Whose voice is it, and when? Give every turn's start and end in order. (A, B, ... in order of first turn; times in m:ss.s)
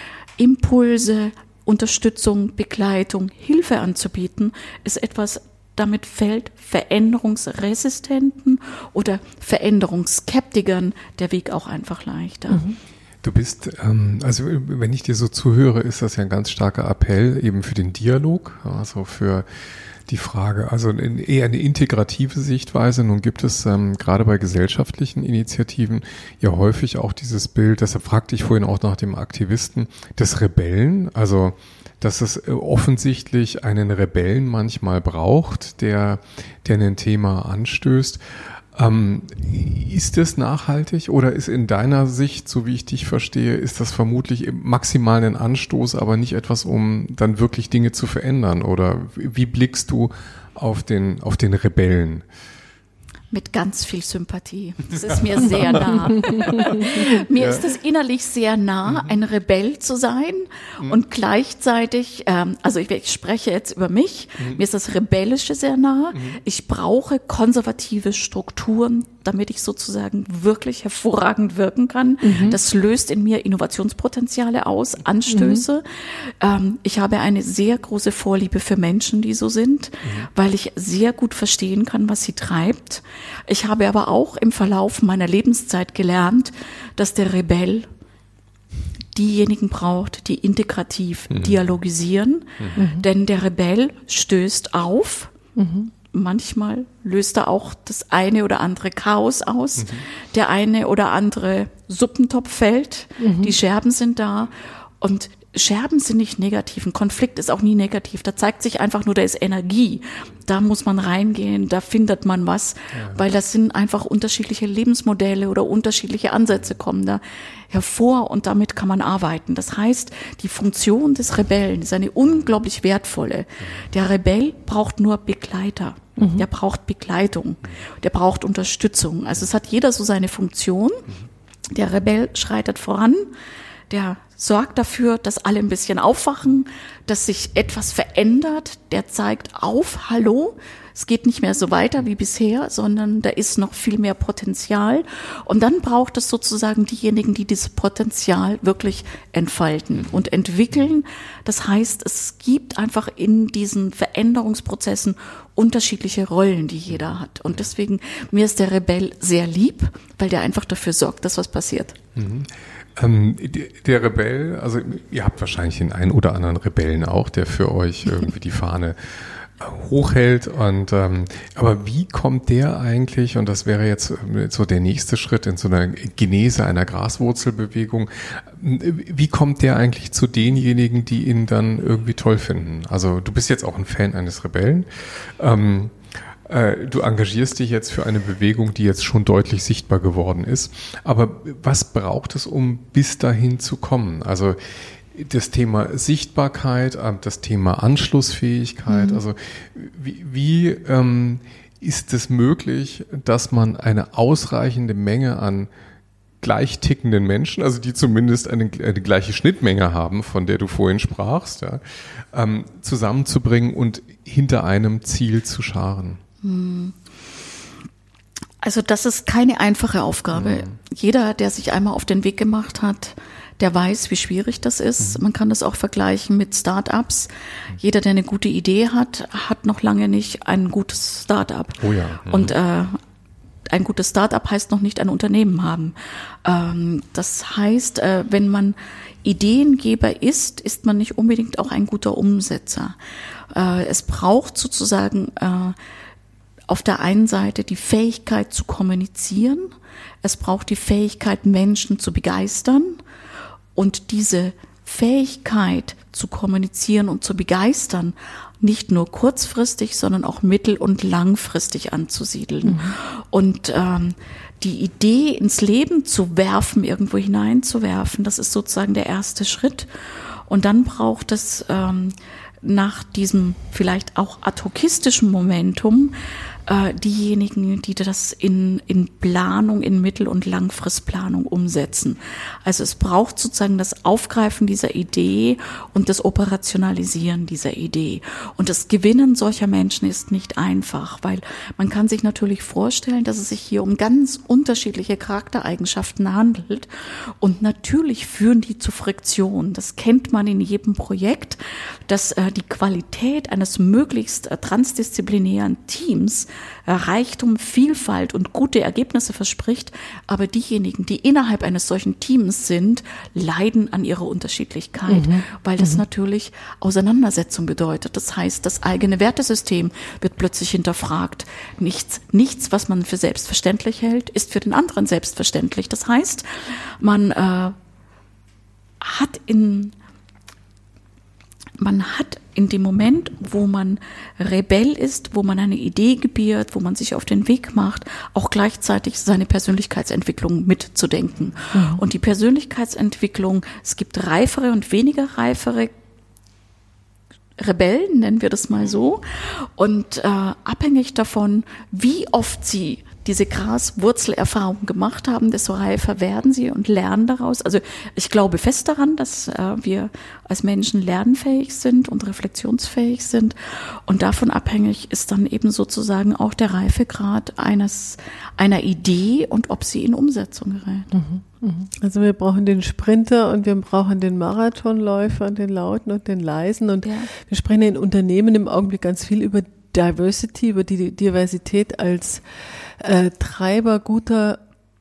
0:00.4-0:12.6 A
0:12.5-0:12.8 B
0:13.2-0:19.4 C
0:20.1-0:38.2 C
0:38.7-0:52.2 C
0:53.3-1:27.9 A
0:55.5-0:57.6 C
0:58.9-0:59.1 C
1:12.2-1:12.6 B
1:15.3-1:15.6 B
1:29.1-1:35.3 A
1:31.3-1:31.6 C
1:32.8-1:33.0 B
1:35.6-1:35.9 B
1:36.1-2:11.0 A
1:39.8-1:40.0 C
1:43.2-1:43.5 B
2:06.2-2:06.4 B
2:11.7-2:13.3 A
2:13.9-2:42.0 A
2:42.2-3:06.0 C
3:06.5-3:25.7 C
3:18.9-3:19.2 B
3:26.4-3:36.2 C
3:36.4-3:37.0 A
3:38.6-3:53.0 A
3:40.3-3:40.7 C
3:51.8-3:52.6 C
3:53.7-4:03.0 A
4:03.5-4:05.8 A
4:06.7-4:09.7 A
4:10.2-4:13.0 A
4:13.7-4:29.9 A
4:22.6-4:22.9 B
4:30.5-4:36.2 A
4:36.7-4:56.9 A
4:57.4-5:27.7 A
5:15.1-5:16.0 B
5:29.0-5:29.9 A
5:31.8-5:45.9 A
5:41.7-5:42.0 B
5:47.6-6:11.1 A
6:11.1-6:24.6 B